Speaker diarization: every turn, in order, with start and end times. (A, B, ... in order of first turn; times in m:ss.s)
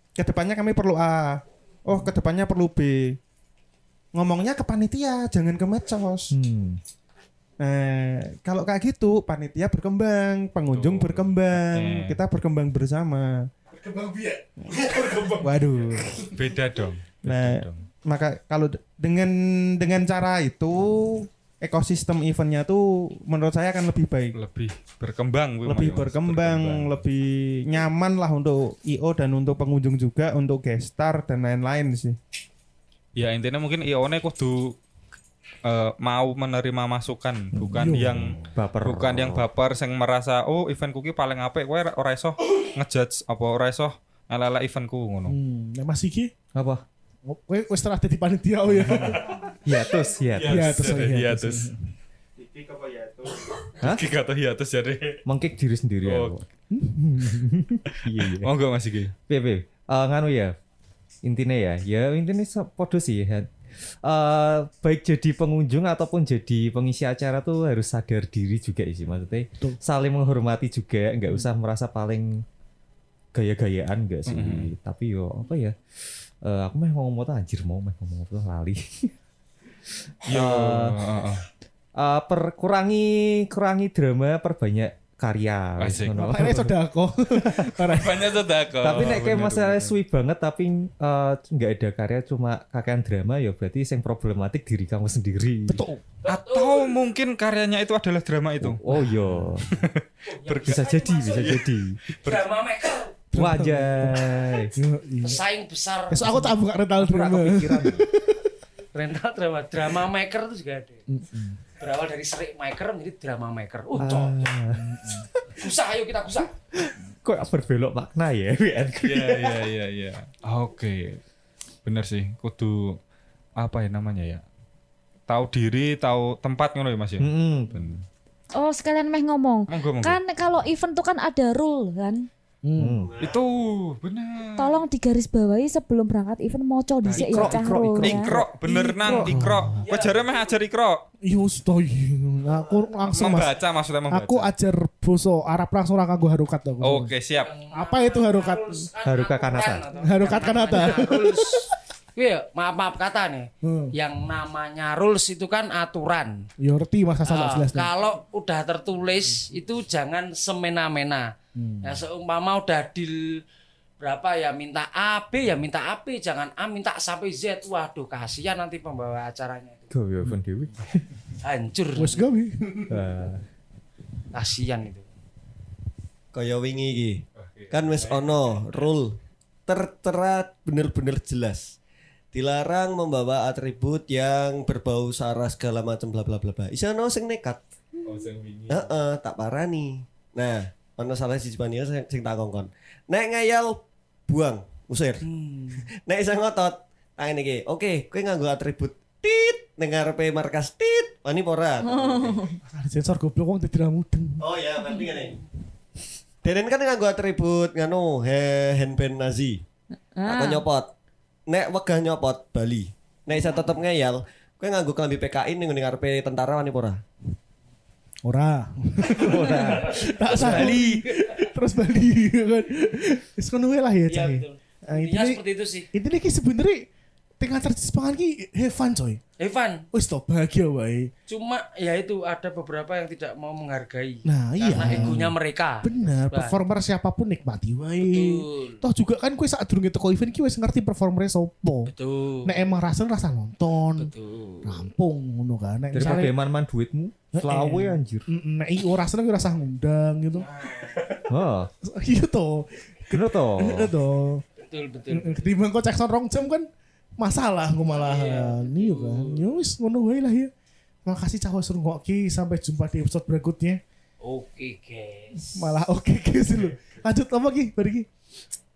0:00.2-0:03.2 A
0:04.1-0:06.4 A
0:06.3-0:06.8 B
0:07.6-0:13.5 A
0:10.7-0:12.2 C
0:13.8-0:15.6 D
0:14.7-0:16.3 A
0:16.3-0:17.8 C
0:17.2-0:24.4 A
0:24.3-0:27.0 C
0:25.6-0:32.2 A
0:33.2-0:34.8 C
0:35.6-0:45.4 C
0:37.6-0:39.5 B
0:37.8-0:38.3 D
0:45.2-0:46.3 D
0:46.5-0:46.8 B
0:47.2-0:49.3 D
0:48.9-0:49.3 C
0:49.6-0:50.7 B
0:50.3-0:51.7 C
0:50.4-0:51.8 D
0:52.4-0:53.5 A
0:53.8-0:55.2 C
0:55.2-0:56.4 B
0:56.0-0:56.3 C
0:56.7-0:57.4 D
0:57.1-0:58.5 B
0:58.0-0:59.1 C
0:59.3-1:00.5 B
1:01.2-1:03.5 B
1:04.0-1:12.4 B
1:13.3-1:15.8 B
1:14.3-1:14.7 C
1:16.4-1:19.1 B
1:20.2-1:21.0 B
1:20.2-1:21.4 C
1:22.0-1:26.7 B
1:25.8-1:26.2 C
1:26.1-1:28.4 D
1:27.4-1:30.0 C
1:28.8-1:35.9 B
1:35.7-1:36.0 D
1:36.2-1:37.0 E
1:36.2-1:38.8 C
1:38.6-1:39.7 B
1:39.0-1:39.4 D
1:39.7-1:42.5 C
1:40.3-1:41.5 E
1:40.6-1:42.0 B
1:42.2-1:43.2 E
1:43.3-1:44.7 B
1:43.3-1:45.4 D
1:45.2-1:46.5 E
1:46.1-1:48.3 D
1:47.0-1:48.0 B
1:48.9-1:51.0 E
1:51.1-1:51.6 D
1:51.8-1:54.5 E
1:54.0-1:55.4 B
1:54.0-1:55.3 D
1:55.5-1:56.5 E
1:56.8-1:59.6 B
1:59.0-2:01.2 C
2:01.8-2:03.0 C
2:03.6-2:04.4 C
2:05.3-2:07.9 C
2:07.2-2:08.0 B
2:08.5-2:12.3 F
2:09.7-2:10.2 C
2:12.6-2:13.1 D
2:12.8-2:13.1 B
2:13.0-2:13.4 G
2:13.2-2:14.8 C
2:14.6-2:19.2 F
2:17.0-2:21.0 C
2:17.1-2:19.6 B
2:19.0-2:19.9 D
2:19.8-2:20.5 E
2:21.2-2:27.1 D
2:22.5-2:22.9 G
2:23.1-2:24.5 C
2:26.8-2:27.5 C
2:27.4-2:36.4 E
2:27.7-2:28.9 D
2:29.0-2:29.9 B
2:30.0-2:31.7 D
2:33.6-2:33.9 D
2:36.6-2:37.9 D
2:37.2-2:41.3 E
2:41.6-2:42.0 D
2:41.8-2:43.4 E
2:44.0-2:49.9 E
2:49.9-2:51.0 B
2:51.4-2:52.2 E
2:52.0-2:53.0 D
2:52.9-2:53.4 B
2:54.3-2:55.0 E
2:56.3-3:01.7 G
2:57.4-2:58.9 C
3:02.3-3:07.6 G
3:08.0-3:09.0 C
3:08.7-3:15.2 G
3:15.3-3:15.8 E
3:15.8-3:22.4 G
3:21.8-3:22.6 F
3:22.6-3:24.6 D
3:24.4-3:25.4 G
3:26.4-3:29.6 G
3:30.2-3:30.6 F
3:30.2-3:30.9 G
3:31.5-3:37.0 G
3:38.2-3:46.9 D
3:39.1-3:40.9 B
3:39.4-3:40.9 E
3:40.4-3:40.6 C
3:44.1-3:45.9 E
3:47.4-3:49.2 D
3:49.4-3:49.8 E
3:49.9-3:51.1 D
3:51.3-3:56.6 E
3:54.2-4:01.9 D
3:54.9-3:55.1 B
3:58.0-3:58.8 E
4:01.9-4:02.7 E
4:02.4-4:04.1 D
4:04.0-4:04.8 E
4:04.6-4:06.4 D
4:05.9-4:08.2 B
4:07.3-4:10.5 D
4:11.3-4:11.7 B
4:11.8-4:14.4 D
4:13.1-4:13.9 B
4:14.6-4:15.5 E
4:15.1-4:16.7 D
4:17.2-4:20.5 D
4:18.0-4:19.6 E
4:21.0-4:23.8 D
4:24.2-4:25.7 E
4:25.3-4:28.1 D